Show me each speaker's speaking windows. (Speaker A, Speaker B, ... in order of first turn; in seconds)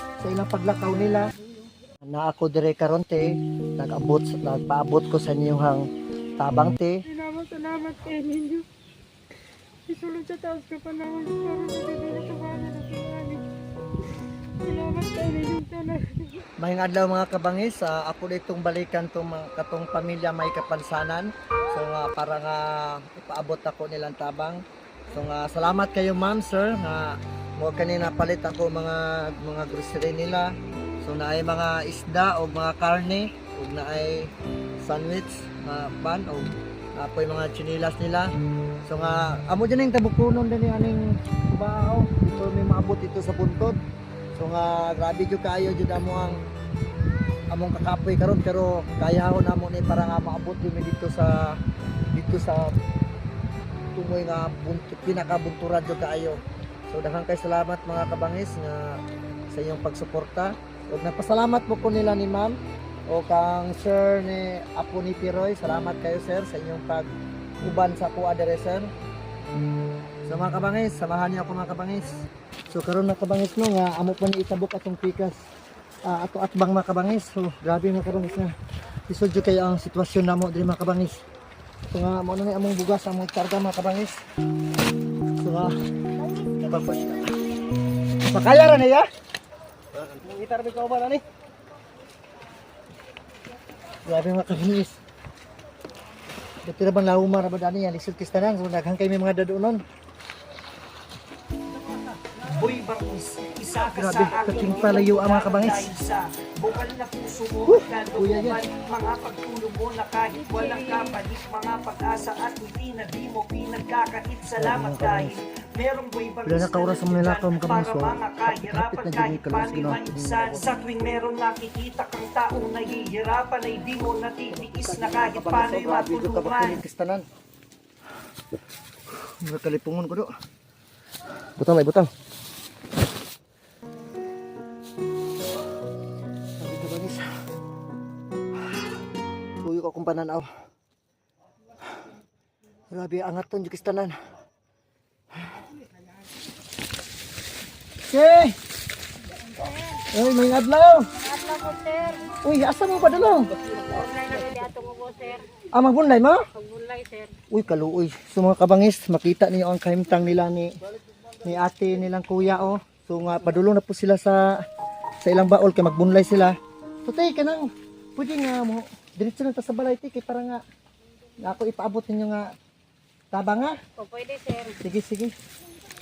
Speaker A: 0.2-1.3, 2.1-5.9, 6.4-7.0, 16.6-38.3, 38.9-43.8, 44.4-46.4, 47.5-51.6, 52.1-52.8, 54.0-62.6, 63.1-68.9, 70.2-75.4, 76.0-78.5, 79.1-81.2, 81.9-84.2, 85.4-85.8, 86.4-87.3, 88.3-89.1, 89.9-91.2, 94.1-95.0, 96.6-99.8, 103.8-105.9, 107.7-108.6, 114.5-115.4, 116.5-120.7, 124.5-127.3, 129.1-130.3, 131.6-132.1, 136.6-137.3, 139.6-140.5, 142.9-144.2, 148.1-148.6, 150.1-151.1, 152.4-153.5, 155.7-156.5, 157.5-160.8, 161.4-164.6, 165.2-170.6, 171.4-172.5, 173.3-173.8, 174.8-175.3
Speaker B: 7.1-8.7, 9.9-13.4, 14.7-16.5, 110.4-111.2, 151.2-152.3, 153.7-155.5, 156.5-157.3, 174.0-174.8
Speaker C: 102.4-126.8